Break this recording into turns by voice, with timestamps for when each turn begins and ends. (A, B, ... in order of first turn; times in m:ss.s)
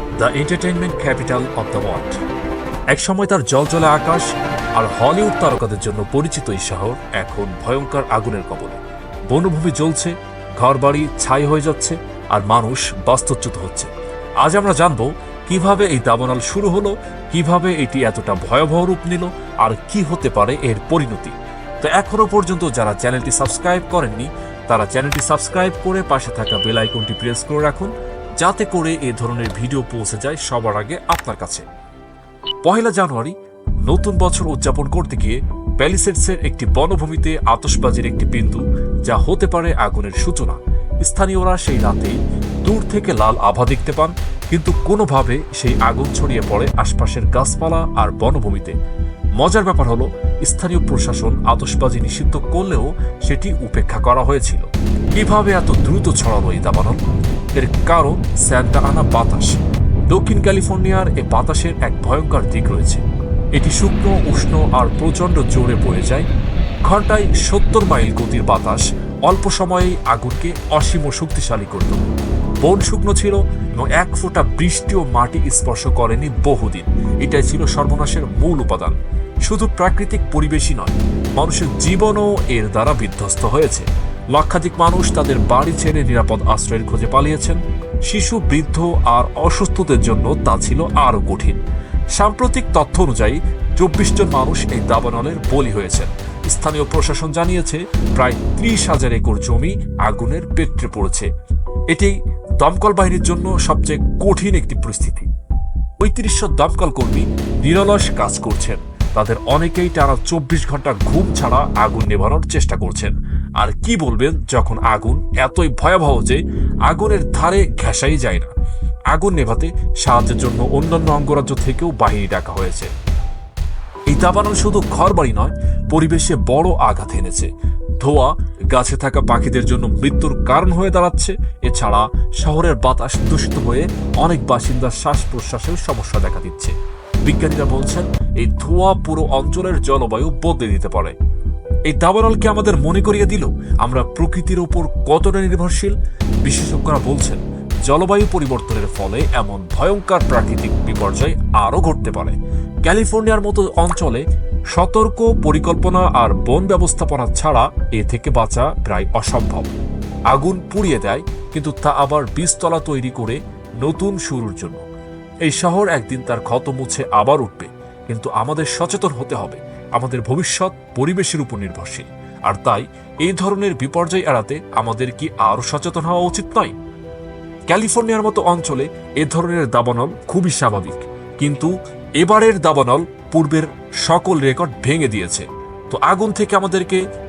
0:00.2-0:02.2 A
0:02.9-0:31.6 A
0:32.6-0:48.8 A
0:49.4-0:57.0 A
0:57.6-1:03.0 A
1:03.6-1:06.3 A
1:06.8-1:12.1 A
1:12.6-1:31.6 A
1:32.2-1:41.3 A
1:41.9-1:45.3 A
1:46.0-1:58.5 A
1:59.1-2:02.9 A
2:04.1-2:07.5 A
2:08.0-2:21.2 A
2:21.9-2:39.7 A
2:40.3-2:44.8 A
2:45.5-2:56.7 A
2:57.7-3:07.0 A